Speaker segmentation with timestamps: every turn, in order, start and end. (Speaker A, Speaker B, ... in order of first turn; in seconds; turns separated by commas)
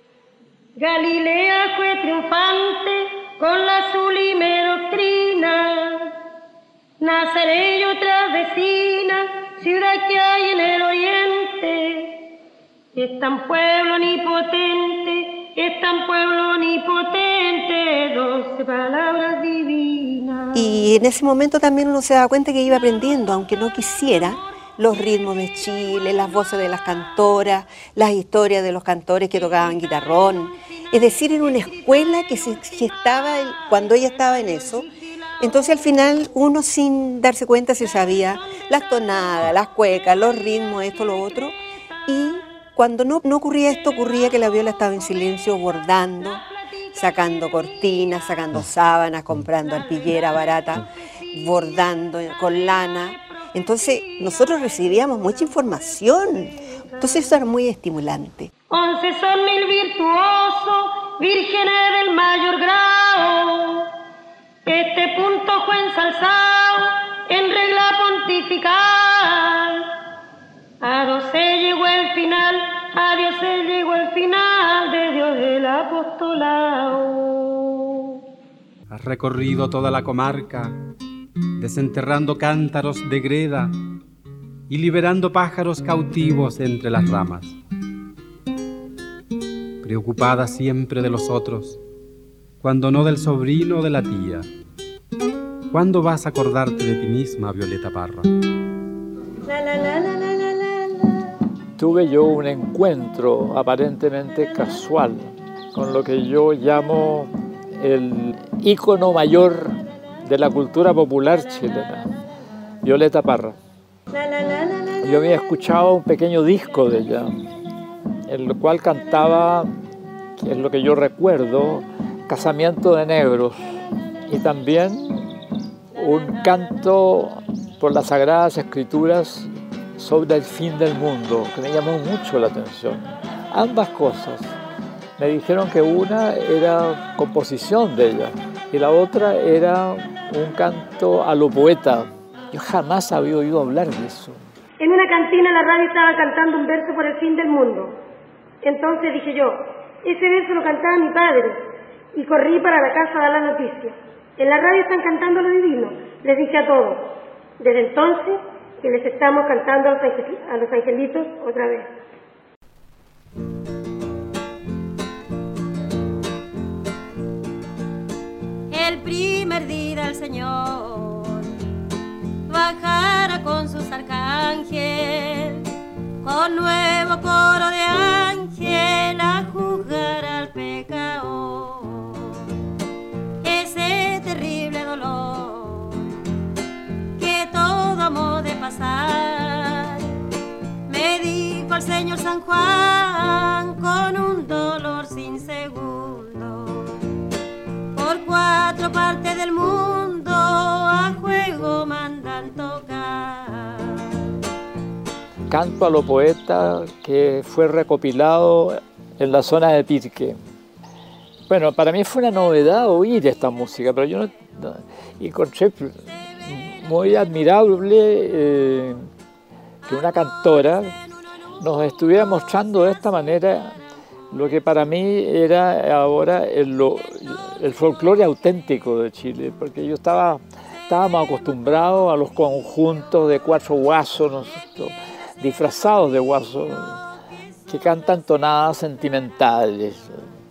Speaker A: 0.8-6.2, Speaker A: 7.0-12.3, Speaker A: 12.9-20.8, Speaker B: 20.5-34.9, Speaker B: 35.4-58.5, Speaker A: 58.7-63.9, Speaker A: 64.7-69.9, Speaker A: 70.8-78.0, Speaker C: 78.9-80.8, Speaker C: 81.6-83.7, Speaker C: 84.7-87.6, Speaker C: 89.8-91.8, Speaker C: 92.6-94.5, Speaker C: 95.7-98.3, Speaker A: 99.5-101.0, Speaker D: 101.8-112.1, Speaker D: 112.8-113.6, Speaker A: 114.2-115.0, Speaker D: 115.0-117.4, Speaker D: 118.3-119.7, Speaker D: 120.4-123.6, Speaker D: 124.3-125.3, Speaker D: 125.9-134.6, Speaker D: 135.2-144.4, Speaker A: 144.8-148.0, Speaker A: 148.6-151.6, Speaker A: 152.1-161.9, Speaker E: 168.7-171.5, Speaker E: 172.5-175.7, Speaker E: 176.2-182.5, Speaker E: 183.4-186.2, Speaker E: 187.2-190.2, Speaker E: 190.9-197.0, Speaker E: 197.9-204.2, Speaker D: 205.5-210.4, Speaker D: 211.5-219.1, Speaker D: 219.9-220.9, Speaker D: 221.6-223.8, Speaker D: 224.3-237.0, Speaker D: 237.7-240.2